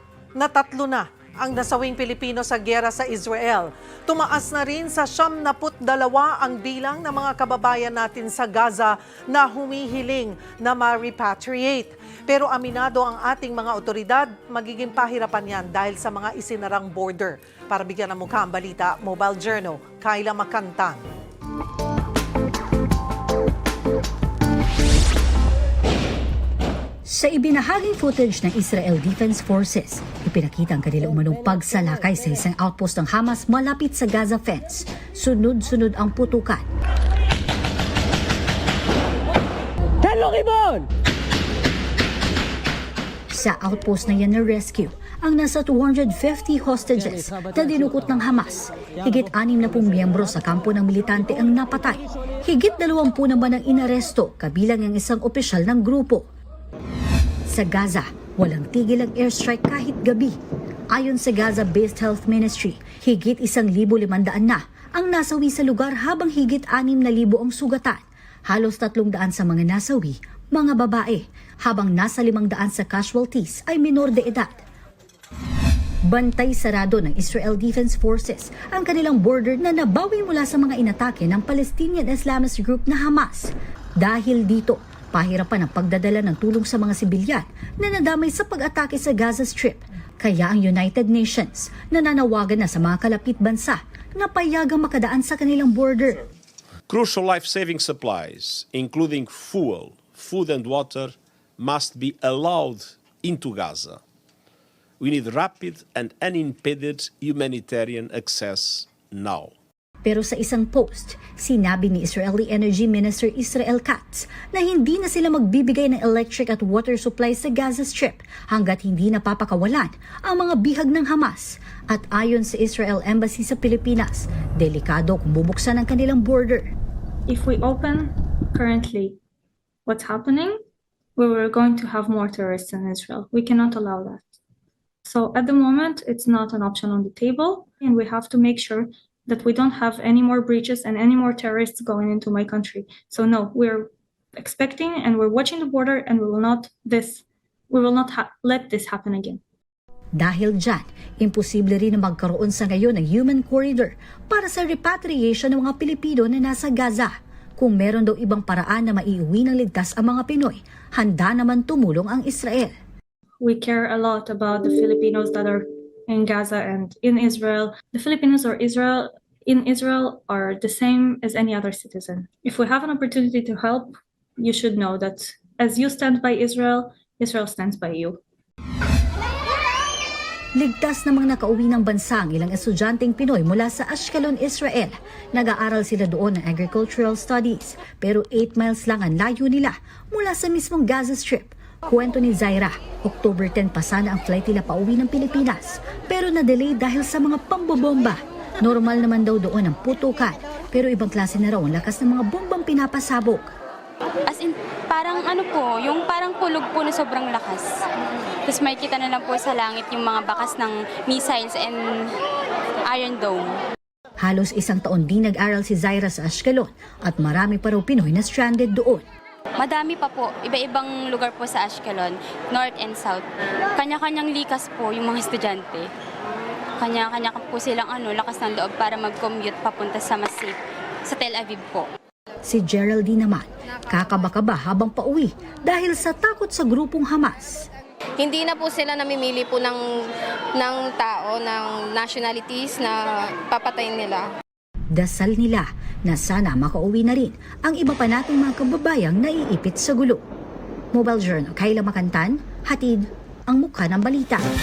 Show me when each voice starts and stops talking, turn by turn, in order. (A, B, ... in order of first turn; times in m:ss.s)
0:00.3-0:21.0 A
0:27.0-0:36.6 B
0:43.3-0:56.3 B
0:57.4-1:00.4 B
1:00.9-1:14.6 B
1:16.1-1:36.2 B
1:36.9-1:44.0 C
1:45.0-1:49.5 C
1:50.0-2:06.7 B
2:07.3-2:09.2 D
2:09.8-2:10.6 D
2:11.2-2:14.3 D
2:15.0-2:29.4 D
2:30.1-2:42.7 B
2:43.4-2:58.2 D
3:00.5-3:23.5 B
3:24.2-3:27.7 E
3:28.4-3:32.1 E
3:32.9-3:33.6 E
3:34.2-3:39.0 B
3:39.6-3:45.9 E
3:46.8-3:51.8 E
3:52.4-3:57.7 B
3:58.2-3:59.8 F
4:00.6-4:04.2 F
4:04.9-4:10.2 B
4:10.9-4:14.4 B